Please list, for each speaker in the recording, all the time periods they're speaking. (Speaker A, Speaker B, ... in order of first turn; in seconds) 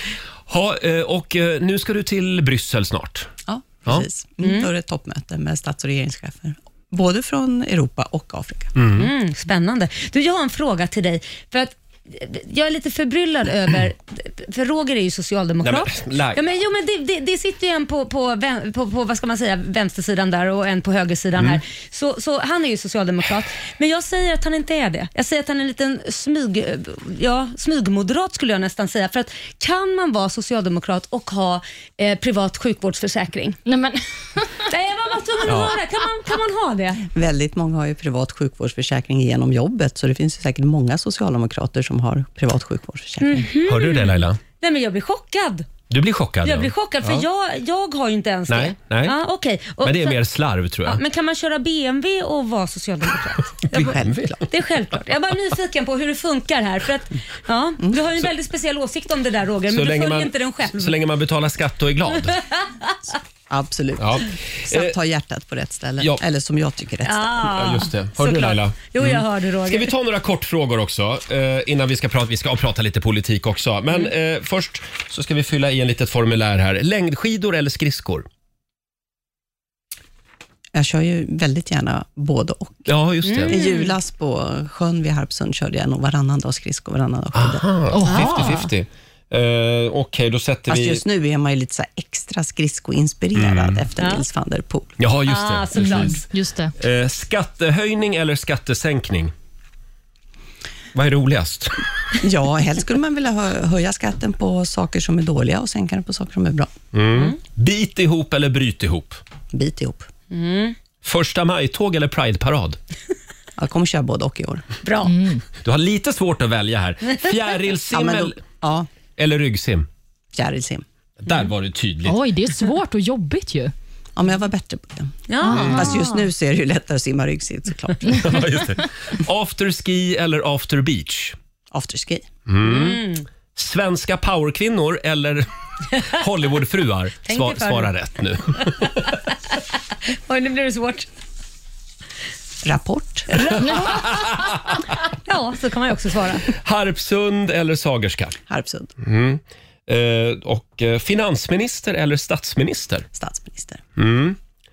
Speaker A: 0.5-3.3, 8.7-9.1, 15.6-16.4, 35.5-35.7, 43.6-44.4, 45.9-47.2, 48.5-49.1, 49.8-51.0, 53.7-54.4, 59.7-62.4, 64.0-64.9, 67.5-78.3, 82.8-83.5, 87.3-91.0, 93.3-93.8, 95.0-96.2, 96.8-99.3, 100.9-101.8, 106.9-109.2, 111.0-112.8, 115.6-118.4, 119.2-119.9, 121.2-122.2, 125.5-125.9, 128.2-131.3, 132.5-133.0, 133.5-139.1, 143.9-144.7, 146.6-148.4, 149.0-153.1, 154.0-154.4
Speaker B: 3.5-8.8, 37.0-43.5, 53.7-54.4, 63.5-67.5, 80.7-82.9, 83.5-88.3, 90.7-94.9, 102.2-106.7, 109.5-110.1, 113.6-114.6, 117.9-118.9, 120.3-120.8, 124.2-128.6, 131.7-132.3, 142.6-143.6, 148.5-148.9, 153.1-153.8
Speaker C: 4.4-4.7, 9.0-33.6, 34.7-37.1, 43.2-45.7, 46.4-50.2, 50.9-54.0, 54.5-61.0, 67.0-69.9, 83.2-84.0, 94.0-94.2, 95.3-96.2, 110.3-110.8, 114.8-115.1, 125.3-125.8, 132.6-133.2, 137.3-137.9, 140.3-141.1, 145.2-146.5
Speaker D: 33.6-34.5, 87.9-88.7, 95.8-96.7, 115.0-115.4, 122.0-123.7, 125.4-126.2